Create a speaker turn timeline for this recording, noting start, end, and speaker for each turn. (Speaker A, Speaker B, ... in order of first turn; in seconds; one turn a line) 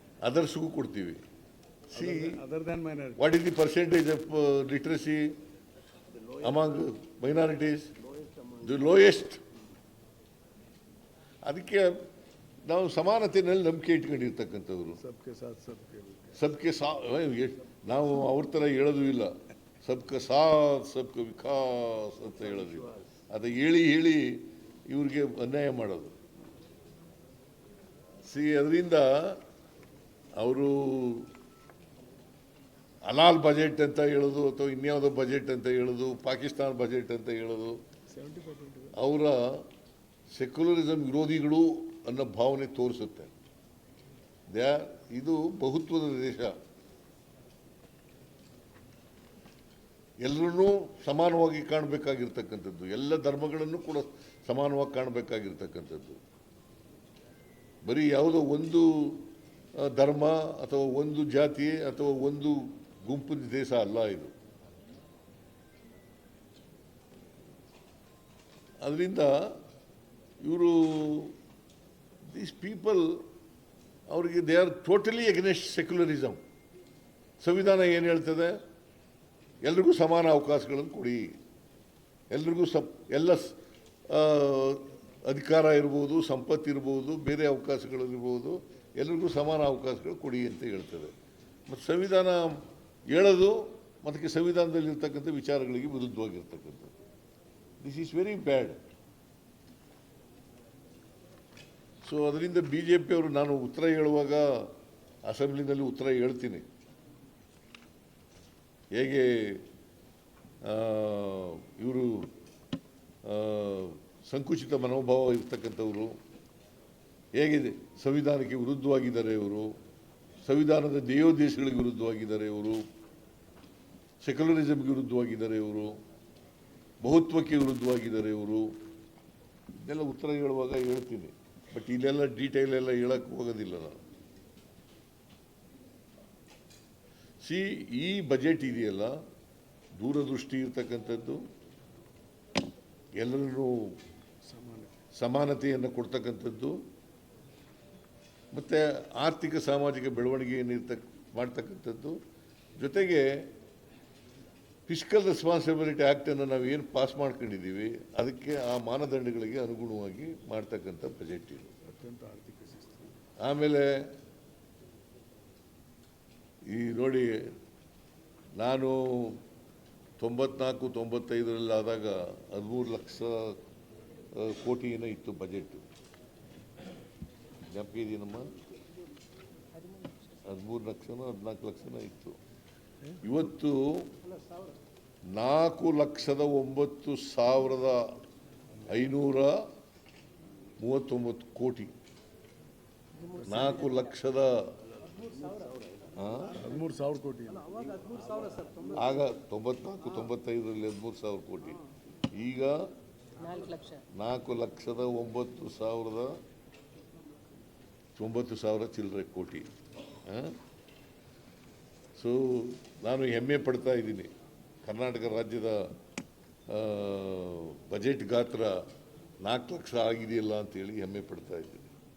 Speaker A: 0.2-1.2
Speaker A: 1.9-2.4
Speaker B: 1.9-3.2
Speaker A: 3.2-5.3
Speaker A: 6.4-7.9
Speaker A: 8.6-9.4
Speaker A: 11.4-12.0
Speaker A: 12.7-15.0
Speaker B: 15.0-16.4
Speaker A: 16.4-19.3
Speaker A: 19.8-26.1
Speaker B: 22.4-23.0
Speaker A: 28.2-29.4
Speaker A: 30.4-31.3
Speaker A: 33.1-37.8
Speaker B: 38.1-39.0
Speaker A: 39.0-39.7
Speaker A: 40.3-43.3
Speaker A: 44.5-46.5
Speaker A: 50.2-56.2
Speaker A: 57.8-64.3
Speaker A: 68.8-69.6
Speaker A: 70.4-71.4
Speaker A: 72.3-73.2
Speaker A: 74.1-76.4
Speaker A: 77.4-78.6
Speaker A: 79.6-81.3
Speaker A: 82.3-83.6
Speaker A: 84.1-91.1
Speaker A: 91.7-96.9
Speaker A: 97.8-98.8
Speaker A: 102.0-104.7
Speaker A: 105.2-106.7
Speaker A: 108.9-109.6
Speaker A: 110.6-112.3
Speaker A: 113.2-116.2
Speaker A: 117.3-119.7
Speaker A: 120.4-122.8
Speaker A: 124.2-125.9
Speaker A: 127.0-128.7
Speaker A: 129.8-134.0
Speaker A: 137.4-139.2
Speaker A: 140.0-141.4
Speaker A: 143.2-144.0
Speaker B: 144.4-145.0
Speaker A: 145.2-146.8
Speaker A: 148.5-152.2
Speaker A: 152.8-153.5
Speaker A: 154.9-161.7
Speaker B: 161.8-163.2
Speaker A: 163.4-164.0
Speaker A: 166.7-167.4
Speaker A: 168.6-169.4
Speaker A: 170.2-173.6
Speaker A: 174.3-175.8
Speaker A: 177.7-178.5
Speaker A: 180.4-182.4
Speaker A: 183.2-184.1
Speaker A: 185.3-188.2
Speaker A: 188.9-189.5
Speaker A: 190.8-191.9
Speaker A: 193.4-194.6
Speaker A: 196.2-196.6
Speaker B: 196.5-198.4
Speaker A: 198.9-201.8
Speaker A: 202.4-202.9
Speaker A: 204.2-206.4
Speaker A: 208.2-209.7
Speaker A: 210.3-210.6
Speaker A: 212.2-214.3
Speaker A: 214.8-215.9
Speaker A: 216.7-218.8
Speaker A: 219.4-221.9